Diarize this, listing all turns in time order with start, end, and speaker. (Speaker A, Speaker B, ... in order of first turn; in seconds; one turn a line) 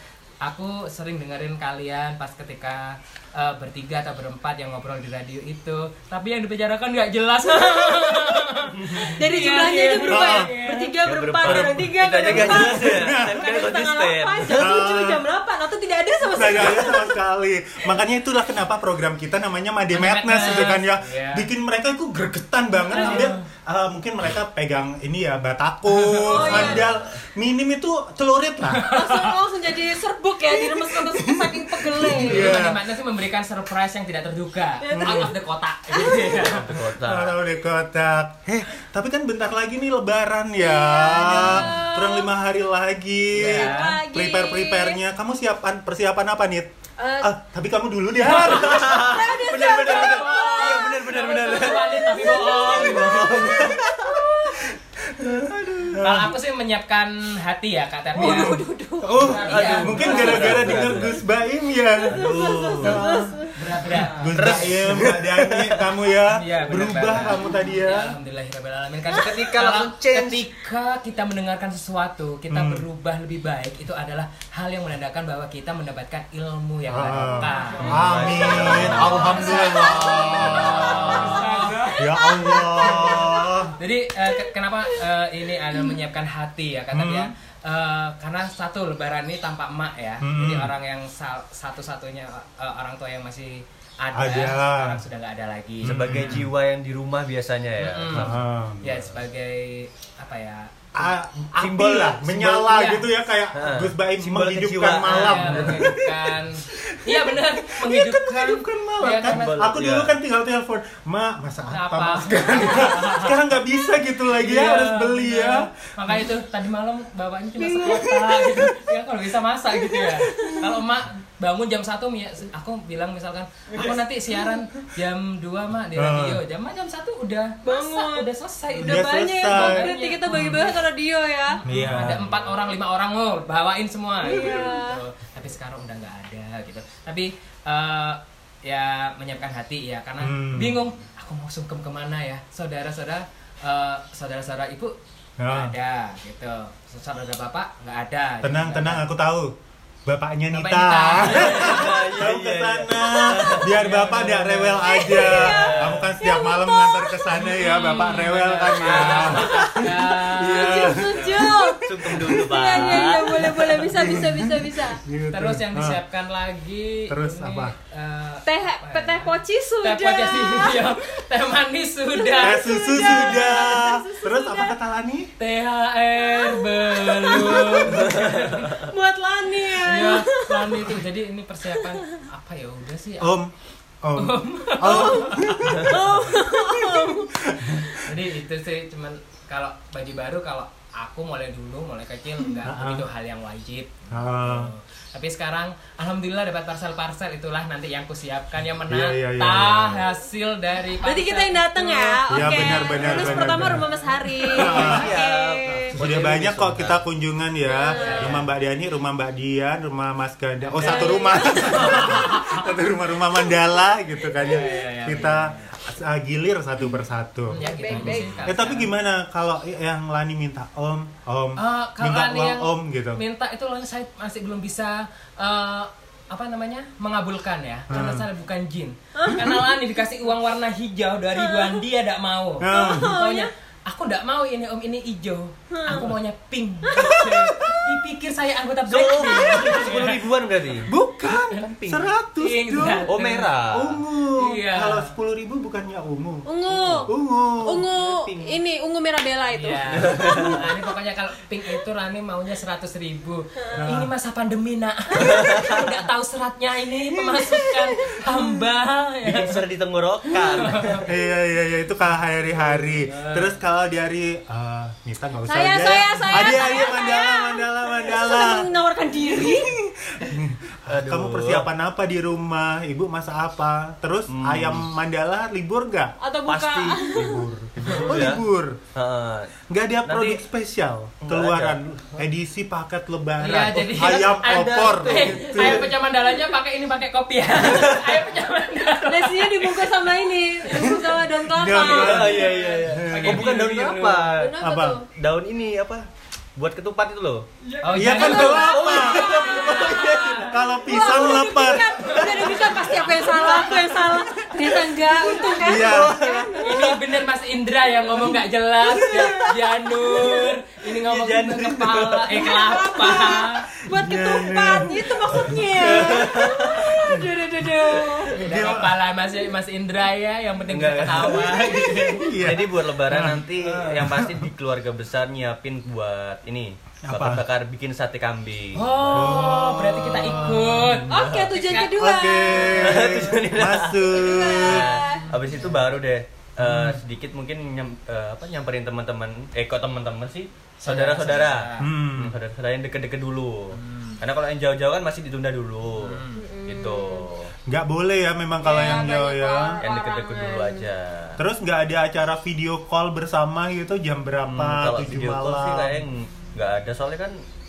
Speaker A: 0.4-10.9
Speaker B: 7.5-17.2
Speaker C: 10.1-10.5
Speaker D: 11.0-14.8
Speaker C: 11.4-13.4
Speaker C: 14.5-15.2
Speaker C: 16.3-28.8
Speaker A: 19.9-21.5
Speaker A: 22.9-23.4
Speaker A: 25.9-26.6
Speaker B: 26.2-27.0
Speaker D: 26.4-27.0
Speaker A: 28.7-29.4
Speaker B: 28.8-32.7
Speaker C: 30.5-32.8
Speaker A: 32.0-36.8
Speaker B: 34.8-35.3
Speaker C: 34.9-35.3
Speaker B: 35.9-36.5
Speaker D: 36.4-37.4
Speaker C: 37.0-49.2
Speaker B: 40.6-42.3
Speaker A: 43.3-44.0
Speaker B: 43.6-45.0
Speaker B: 47.0-47.3
Speaker D: 48.3-54.2
Speaker B: 48.4-51.8
Speaker A: 49.8-53.5
Speaker B: 54.1-54.6
Speaker D: 55.2-56.0
Speaker C: 55.9-56.3
Speaker A: 56.0-58.6
Speaker B: 58.1-61.1
Speaker C: 58.2-68.1
Speaker A: 59.2-60.6
Speaker D: 59.2-61.2
Speaker B: 61.9-63.6
Speaker D: 62.0-63.0
Speaker A: 63.5-64.7
Speaker D: 63.9-65.9
Speaker A: 66.3-83.3
Speaker D: 69.1-70.5
Speaker C: 72.5-72.9
Speaker C: 76.9-81.4
Speaker D: 77.8-79.5
Speaker B: 78.7-83.7
Speaker C: 82.0-83.8
Speaker A: 83.8-96.4
Speaker C: 86.9-87.3
Speaker C: 90.2-90.7
Speaker C: 94.1-95.0
Speaker C: 95.8-96.5
Speaker D: 95.8-99.2
Speaker A: 97.8-100.7
Speaker C: 98.1-98.8
Speaker C: 101.0-105.9
Speaker D: 101.6-102.6
Speaker A: 102.6-103.1
Speaker D: 103.5-106.2
Speaker A: 105.0-109.5
Speaker C: 106.7-116.2
Speaker D: 109.2-110.2
Speaker A: 111.7-113.6
Speaker A: 114.2-130.8
Speaker C: 117.6-118.9
Speaker B: 119.9-120.7
Speaker C: 126.0-126.4
Speaker B: 127.6-128.3
Speaker C: 128.8-130.6
Speaker B: 128.8-131.6
Speaker A: 131.6-145.0
Speaker C: 131.7-132.3
Speaker B: 134.2-135.0
Speaker C: 140.2-140.8
Speaker C: 145.4-145.7
Speaker A: 145.5-149.1
Speaker C: 148.4-149.5
Speaker C: 150.1-166.0
Speaker A: 150.5-151.9
Speaker D: 151.3-153.7
Speaker A: 153.5-155.0
Speaker B: 154.8-165.0
Speaker D: 155.1-156.1
Speaker A: 157.4-161.3
Speaker D: 161.8-164.0
Speaker A: 165.3-173.8
Speaker C: 167.1-167.8
Speaker B: 168.4-171.0
Speaker B: 172.1-174.8
Speaker C: 172.4-175.3
Speaker A: 175.4-178.9
Speaker B: 176.2-178.1
Speaker D: 178.0-178.5
Speaker B: 178.7-180.8
Speaker A: 179.8-183.4
Speaker B: 181.8-182.2
Speaker C: 183.2-188.0
Speaker A: 184.2-186.2
Speaker B: 184.9-187.3
Speaker A: 187.9-205.0
Speaker C: 192.6-193.1
Speaker C: 194.1-194.7
Speaker C: 198.9-200.0
Speaker B: 201.0-205.9
Speaker C: 202.3-203.9
Speaker C: 204.6-205.1
Speaker D: 204.6-207.0
Speaker C: 205.9-223.2
Speaker B: 207.7-208.4
Speaker A: 207.9-208.5
Speaker A: 210.6-212.7
Speaker B: 210.8-212.4
Speaker A: 214.4-215.7
Speaker A: 217.5-218.9
Speaker B: 217.6-218.4
Speaker A: 221.6-240.2
Speaker C: 227.9-228.3
Speaker B: 229.2-229.6
Speaker B: 231.3-231.8
Speaker C: 232.6-233.2
Speaker B: 232.7-233.5
Speaker B: 235.7-236.1
Speaker B: 236.9-237.2
Speaker C: 237.0-237.5
Speaker D: 238.9-240.9
Speaker C: 240.9-243.1
Speaker D: 241.6-242.1
Speaker A: 242.4-243.5
Speaker D: 243.1-244.0
Speaker C: 243.7-246.4
Speaker A: 244.4-245.1
Speaker B: 246.4-247.1
Speaker D: 246.7-247.1
Speaker C: 247.1-247.9
Speaker B: 247.6-250.7
Speaker D: 247.9-248.6
Speaker A: 249.5-259.6
Speaker D: 249.9-250.5
Speaker B: 253.6-253.9
Speaker C: 253.8-254.1
Speaker B: 257.1-258.4
Speaker D: 259.2-261.1
Speaker A: 260.3-261.0
Speaker C: 261.1-268.7
Speaker A: 263.1-263.5
Speaker B: 265.4-269.8
Speaker C: 269.3-276.1
Speaker D: 270.9-271.7
Speaker D: 274.3-274.9
Speaker B: 276.2-277.4
Speaker D: 276.5-278.4
Speaker C: 277.1-278.8
Speaker D: 278.9-279.5
Speaker C: 279.7-285.9
Speaker D: 280.1-280.4
Speaker D: 281.2-282.2
Speaker A: 283.4-290.1
Speaker D: 284.2-285.9
Speaker D: 287.6-288.2
Speaker B: 289.0-292.3
Speaker C: 291.4-293.6
Speaker D: 291.7-294.6
Speaker A: 292.1-294.3
Speaker B: 294.3-295.1
Speaker C: 294.6-295.0
Speaker D: 295.1-300.4
Speaker A: 297.8-300.6
Speaker C: 297.9-302.7
Speaker B: 298.0-307.0
Speaker A: 302.0-303.9
Speaker D: 302.2-303.5
Speaker C: 304.5-304.7
Speaker A: 305.2-305.6
Speaker D: 305.5-307.0
Speaker C: 305.6-306.5
Speaker A: 306.6-313.7
Speaker D: 308.9-309.3
Speaker B: 309.1-310.5
Speaker D: 311.0-312.5
Speaker B: 312.4-318.4
Speaker C: 313.9-317.3
Speaker D: 315.8-317.0
Speaker D: 317.7-318.3
Speaker C: 318.4-319.0
Speaker A: 318.4-322.3
Speaker D: 320.7-329.6
Speaker C: 321.3-324.5
Speaker C: 327.1-327.4
Speaker A: 328.7-332.0
Speaker C: 329.1-331.1
Speaker D: 331.1-331.6
Speaker B: 331.1-332.9
Speaker C: 331.9-335.0
Speaker A: 332.5-333.2
Speaker D: 332.7-347.5
Speaker B: 334.1-335.3
Speaker A: 335.3-335.7
Speaker C: 336.6-337.0
Speaker A: 340.8-341.9
Speaker C: 341.8-342.4
Speaker A: 343.7-344.2
Speaker A: 346.0-346.4
Speaker B: 346.3-347.3
Speaker C: 347.7-349.8
Speaker B: 348.6-350.9
Speaker D: 349.8-351.4
Speaker C: 351.4-356.1
Speaker D: 354.4-357.4